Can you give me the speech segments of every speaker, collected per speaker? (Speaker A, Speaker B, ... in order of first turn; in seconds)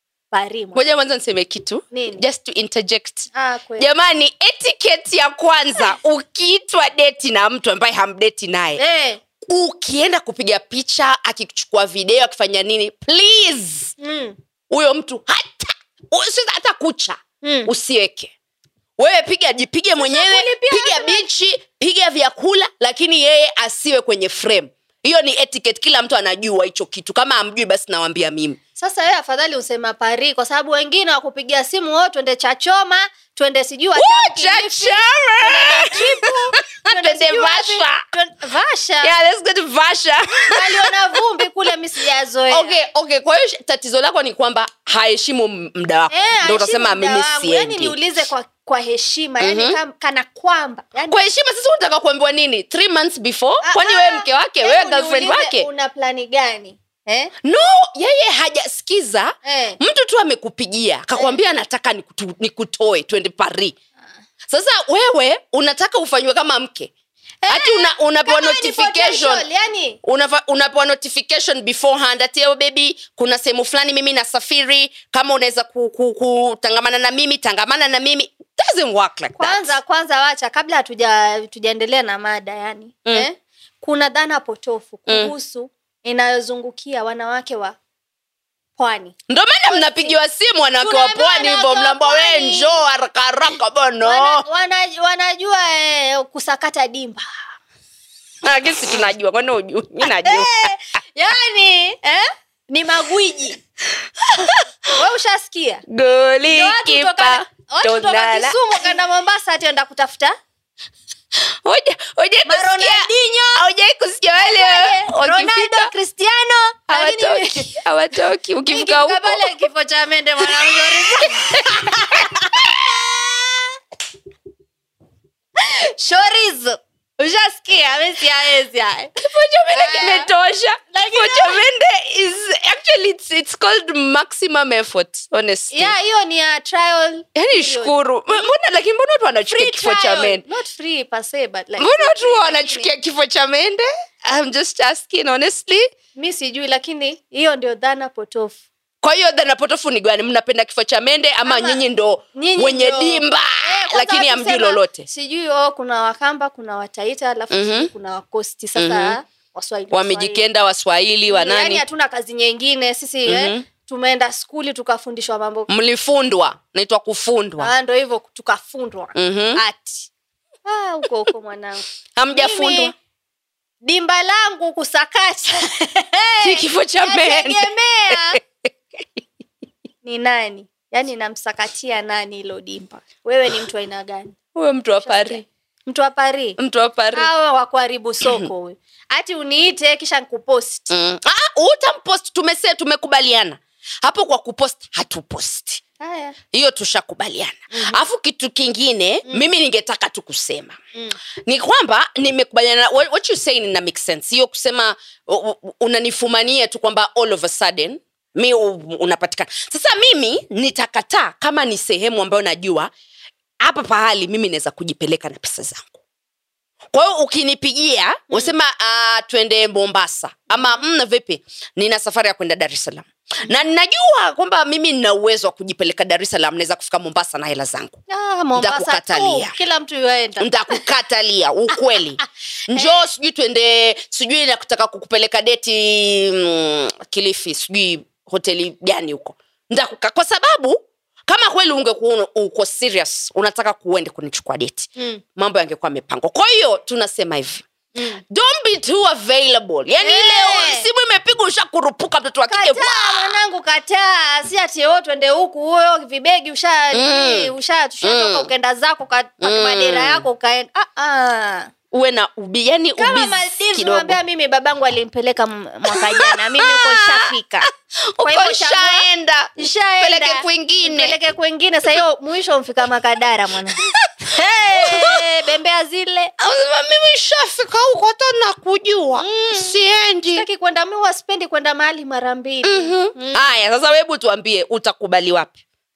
Speaker A: 0.3-0.9, 1.9-2.2, 3.3-3.9, 8.8-9.2, 14.0-14.3, 17.4-17.7, 19.9-21.3, 28.8-39.1, 40.5-42.8, 46.1-51.2, 53.6-57.3, 59.4-59.8, 67.4-70.0, 79.4-87.8, 88.8-89.1, 89.7-90.2, 90.8-92.8, 94.0-97.3, 100.0-103.6, 104.9-105.8, 106.5-110.3, 112.4-113.6, 114.4-117.8, 118.6-123.8, 125.6-129.1, 129.7-130.3, 130.9-131.6, 135.7-138.0, 139.5-142.9, 146.1-148.6, 151.4-151.8, 152.3-160.4, 161.3-165.7, 167.6-170.1, 170.7-172.9, 173.8-178.4, 180.0-184.4, 185.0-186.6, 187.1-190.9, 196.0-196.3, 197.7-198.0, 218.3-218.5, 220.5-220.8, 228.1-230.8, 232.7-233.1, 245.0-245.2, 247.9-248.2, 250.0-250.9, 252.5-261.7, 263.0-267.7, 268.2-276.3, 279.2-279.7, 280.3-283.5
Speaker B: 0.7-8.8, 9.4-13.9, 14.7-18.3, 19.0-28.6, 33.9-38.0, 39.0-41.1, 42.5-48.0, 49.4-49.8, 51.1-55.7, 57.4-63.7, 64.5-66.9, 67.5-69.4, 70.0-79.7, 85.1-85.3, 89.3-94.4, 98.4-100.7, 104.2-104.6, 105.9-108.6, 111.4-115.9, 116.9-119.5, 120.4-122.8, 129.2-135.9, 137.3-140.4, 141.8-145.9, 149.0-155.1, 157.5-157.9, 158.8-159.2, 159.9-161.8, 163.2-163.7, 165.7-167.7, 169.1-169.6, 172.2-172.9, 176.4-179.2, 184.5-185.4, 186.6-187.3, 188.2-188.5, 190.9-195.8, 196.5-200.8, 201.4-212.9, 213.6-216.0, 216.9-228.0, 228.6-229.5, 230.4-247.6, 248.3-253.3, 256.9-258.5, 259.4-260.2, 261.9-264.2, 265.9-271.1, 273.8-275.2, 276.4-280.4, 282.6-285.6